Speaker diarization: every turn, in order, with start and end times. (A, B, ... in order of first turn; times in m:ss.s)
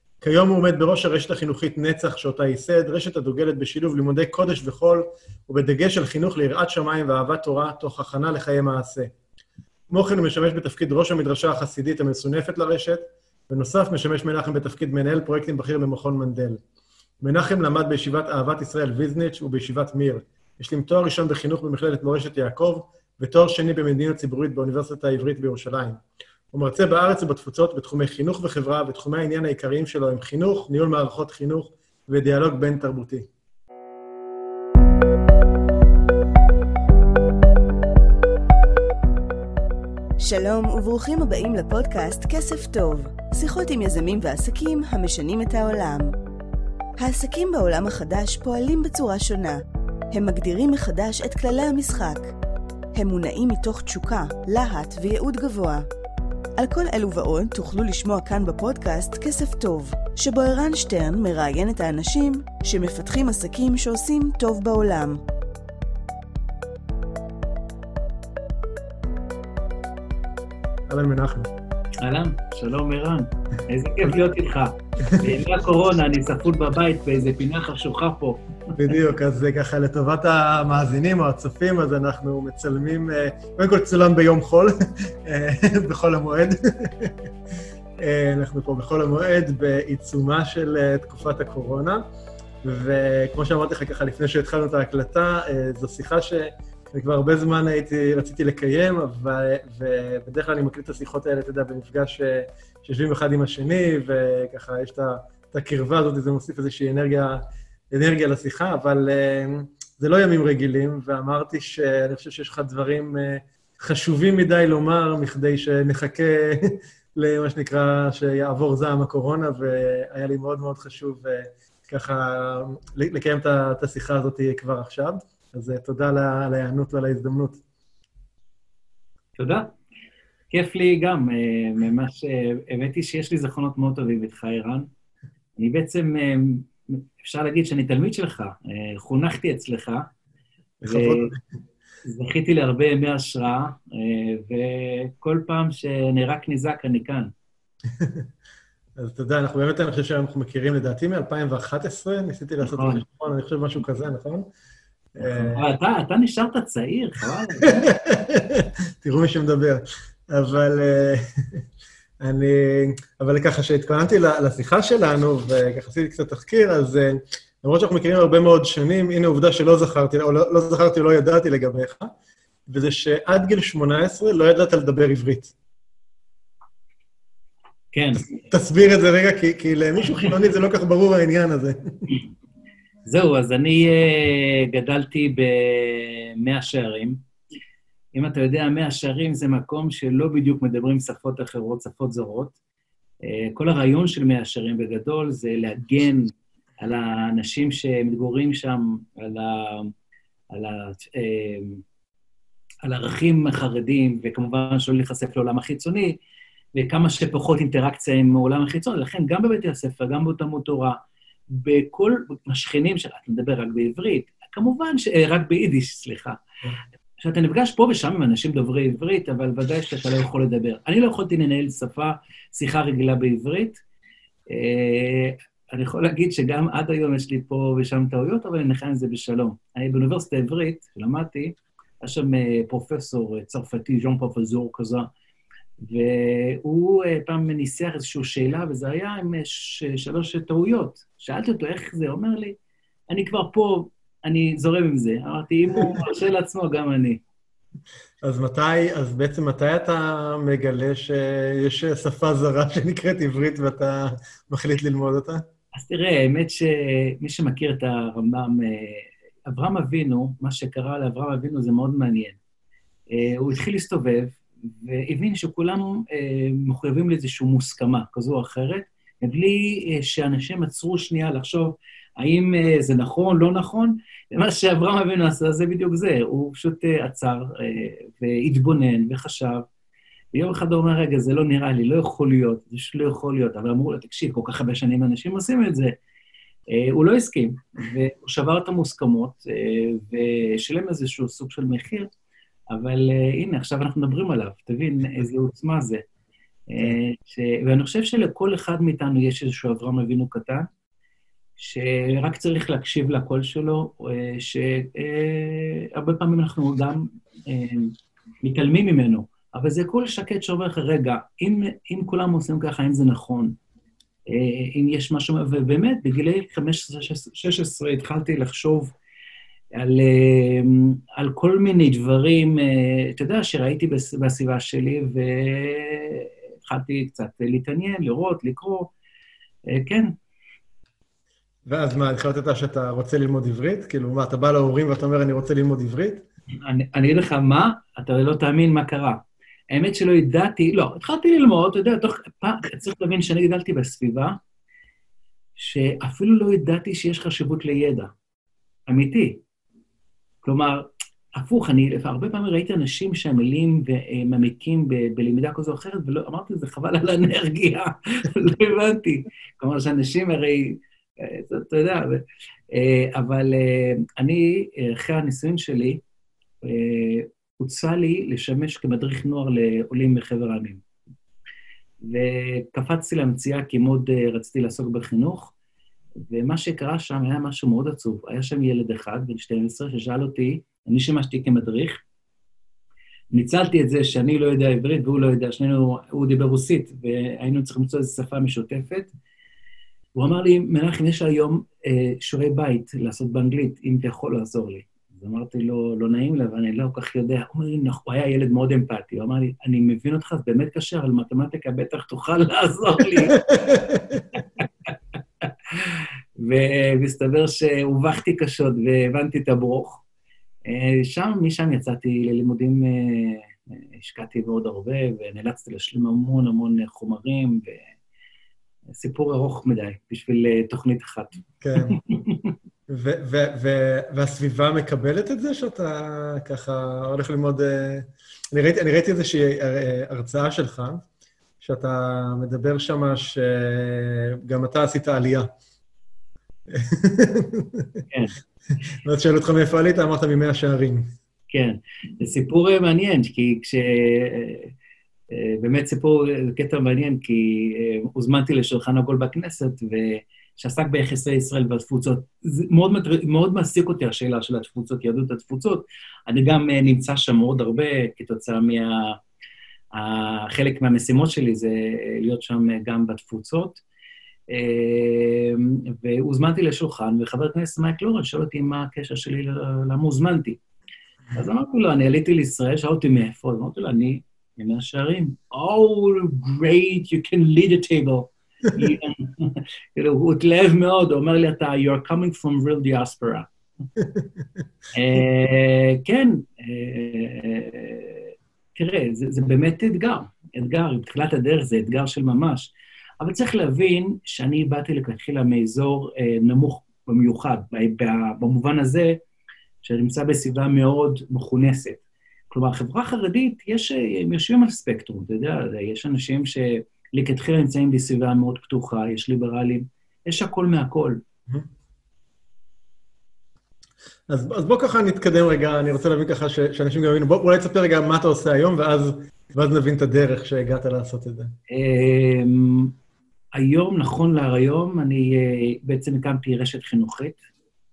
0:00.2-0:09.1 A
0:09.9-0:16.6 A
0:17.2-0:26.0 A
0:26.5-0:33.3 A
0:40.2-0:46.1 B
0:47.0-0:52.4 B
0:52.9-0:55.9 B
0:56.6-1:05.2 B
1:10.9-1:11.5 A
1:12.0-1:18.4 C
1:18.8-1:27.1 A
1:28.0-1:32.0 A
1:32.6-2:07.6 A
2:09.4-2:09.7 C
2:10.5-2:14.9 C
2:15.6-2:20.1 C
2:20.8-2:21.4 A
2:20.9-2:21.3 C
2:22.0-2:27.3 C
2:28.0-2:28.2 A
2:29.0-2:34.5 A
2:32.6-2:33.0 C
2:35.2-2:35.6 A
2:35.2-2:37.9 C
2:37.7-2:41.6 A
2:42.2-2:52.1 A
2:52.7-2:55.5 A
2:57.9-2:58.3 C
2:58.5-3:02.1 A
3:03.1-3:07.2 C
3:08.1-3:12.5 C
3:13.2-3:19.9 C
3:20.5-3:21.8 C
3:22.8-3:26.2 C
3:26.8-3:31.0 C
3:31.5-3:36.4 C
3:37.2-3:43.8 C
3:44.5-3:55.1 C
3:55.8-4:02.6 C
4:03.1-4:07.2 C
4:08.2-4:15.4 A
4:15.8-4:22.4 C
4:23.1-4:39.6 C
4:40.3-4:46.0 C
4:46.7-4:52.1 C
4:52.7-4:56.0 C
4:56.7-5:00.7 C
5:01.6-5:13.6 C
5:14.3-5:18.9 C
5:19.7-5:28.9 C
5:29.7-5:30.1 C
5:31.7-5:36.3 A
5:36.6-5:44.4 C
5:45.6-5:48.1 C
5:48.9-5:49.4 C
5:50.4-6:06.0 C
6:06.6-6:10.8 C
6:12.0-6:15.5 C
6:16.3-6:22.0 C
6:23.3-6:29.1 C
6:30.2-6:43.4 C
6:43.4-6:44.2 A
6:45.4-6:50.0 C
6:50.7-6:57.8 C
6:58.9-7:02.5 C
7:01.6-7:02.0 A
7:02.9-7:11.0 A
7:11.6-7:15.5 A
7:16.7-7:18.0 A
7:19.0-7:21.1 A
7:21.5-7:24.7 C
7:25.3-7:39.2 C
7:39.9-7:43.8 C
7:44.5-7:50.6 C
7:51.3-8:03.5 C
8:04.9-8:19.2 C
8:19.8-8:22.0 C
8:22.5-8:31.2 C
8:34.3-8:41.5 A
8:41.7-8:42.9 C
8:43.5-8:47.4 C